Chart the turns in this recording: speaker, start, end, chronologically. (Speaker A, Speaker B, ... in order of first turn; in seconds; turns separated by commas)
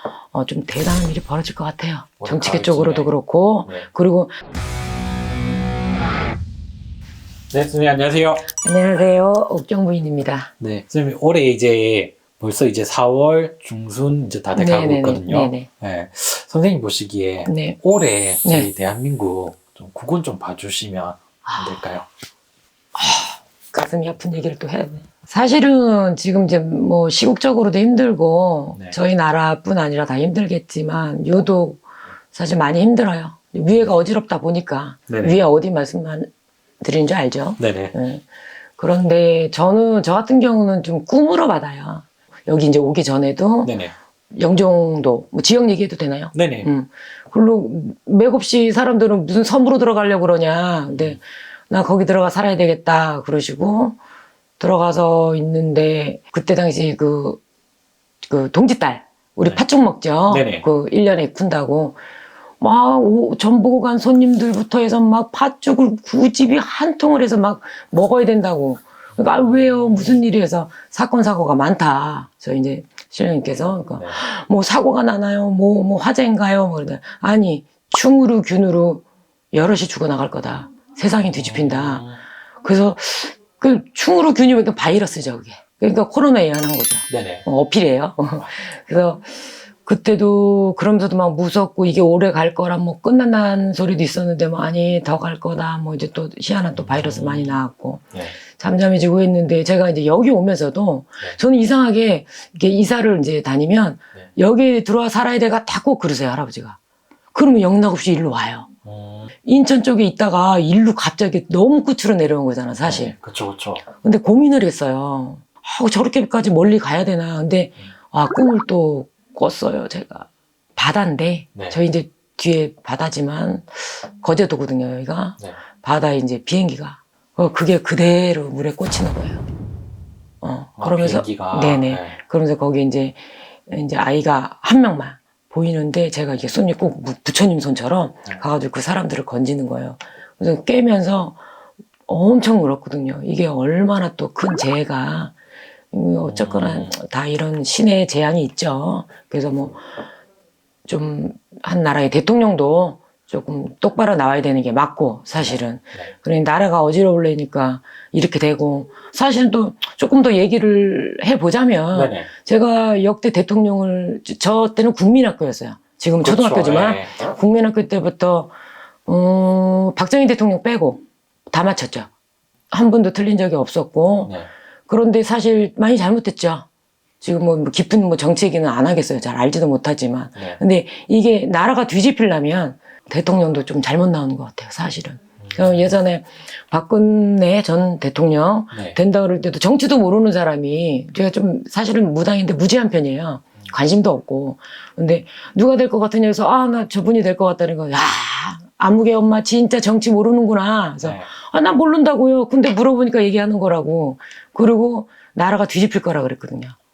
Speaker A: 0.3-4.3, Speaker B: 2.2-3.1, Speaker B: 7.5-8.5, Speaker A: 8.5-10.5, Speaker B: 10.6-22.1, Speaker A: 14.6-15.7, Speaker A: 17.4-17.8, Speaker A: 21.4-21.8, Speaker A: 22.9-36.3, Speaker B: 35.1-35.4, Speaker A: 36.8-38.2, Speaker B: 37.6-38.0, Speaker A: 38.8-43.7, Speaker B: 43.6-43.9, Speaker A: 44.3-54.0, Speaker B: 46.3-46.7, Speaker A: 54.6-57.4, Speaker A: 58.2-62.0, Speaker B: 60.3-60.6, Speaker A: 62.6-82.0, Speaker B: 69.2-70.2, Speaker B: 81.2-82.2, Speaker A: 82.6-106.8, Speaker B: 87.1-87.5, Speaker B: 96.8-97.6, Speaker A: 107.3-108.7, Speaker B: 108.8-109.3, Speaker A: 109.4-113.1, Speaker B: 112.8-113.8, Speaker A: 113.9-129.4, Speaker A: 130.4-141.4, Speaker B: 130.8-132.2, Speaker A: 142.1-145.3, Speaker A: 145.9-149.9, Speaker B: 146.3-146.9, Speaker A: 150.9-168.5, Speaker B: 155.4-156.1, Speaker B: 161.9-162.3, Speaker B: 166.2-167.2, Speaker A: 169.1-172.1, Speaker A: 172.7-174.3, Speaker A: 174.9-176.7, Speaker A: 177.2-206.8, Speaker B: 185.4-186.0, Speaker B: 188.7-189.0, Speaker B: 201.0-201.3